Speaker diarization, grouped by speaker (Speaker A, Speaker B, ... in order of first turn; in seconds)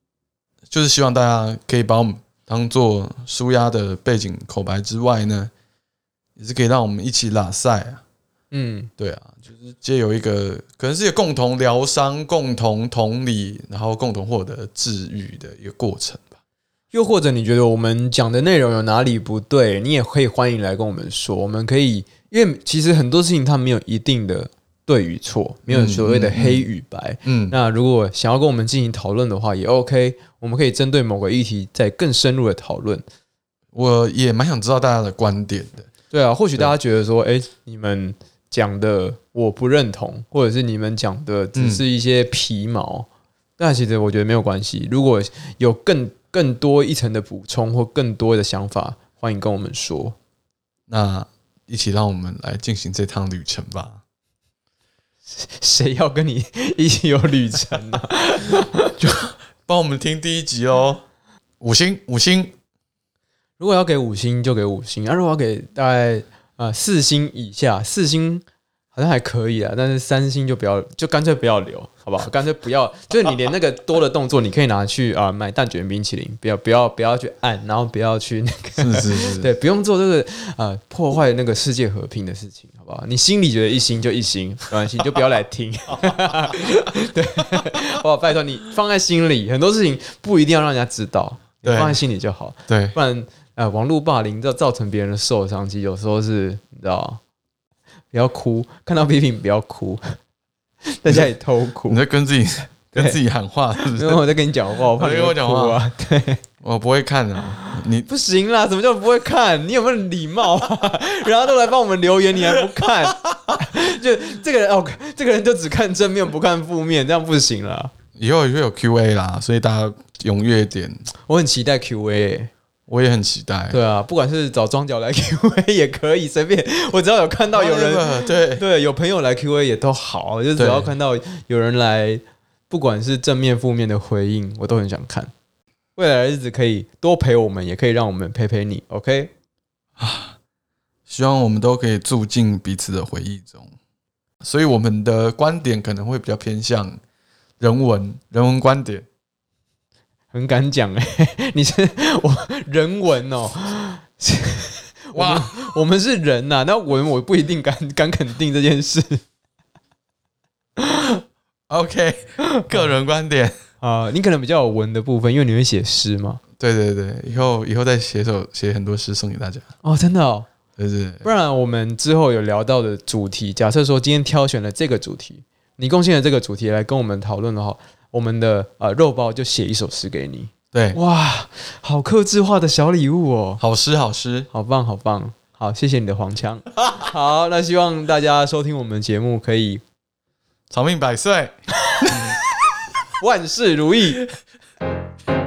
Speaker A: 0.7-5.5, 6.4-8.0, 9.0-16.4, 25.7-26.7, 27.2-27.6, 33.7-35.9, 41.5-41.8, 50.9-54.0, 59.0-61.0, 61.6-62.5, 78.8-79.5, 91.6-92.0, 92.7-93.0, 101.9-104.2, 104.9-105.8, 106.6-108.1, 118.2-121.0, 122.9-123.8, 127.5-128.6, 130.6-130.9, 140.0-140.3, 141.1-143.7, 144.4-147.0, 147.6-149.1, 155.1-155.7, 161.7-163.5, 166.6-169.7, 170.8-171.2, 180.7-181.0, 183.6-184.5, 190.7-192.4
Speaker B: 8.5-8.9, 16.9-33.0, 36.1-50.1, 55.3-59.0, 63.6-97.2, 98.1-100.0, 101.0-102.0, 103.8-106.4, 107.6-117.9, 121.2-122.5, 123.7-135.3, 135.9-139.3, 150.3-159.2, 160.8-161.1, 162.4-162.8, 163.8-166.4, 169.8-170.5, 171.2-183.6, 184.5-189.8, 192.1-192.3, 193.2-194.2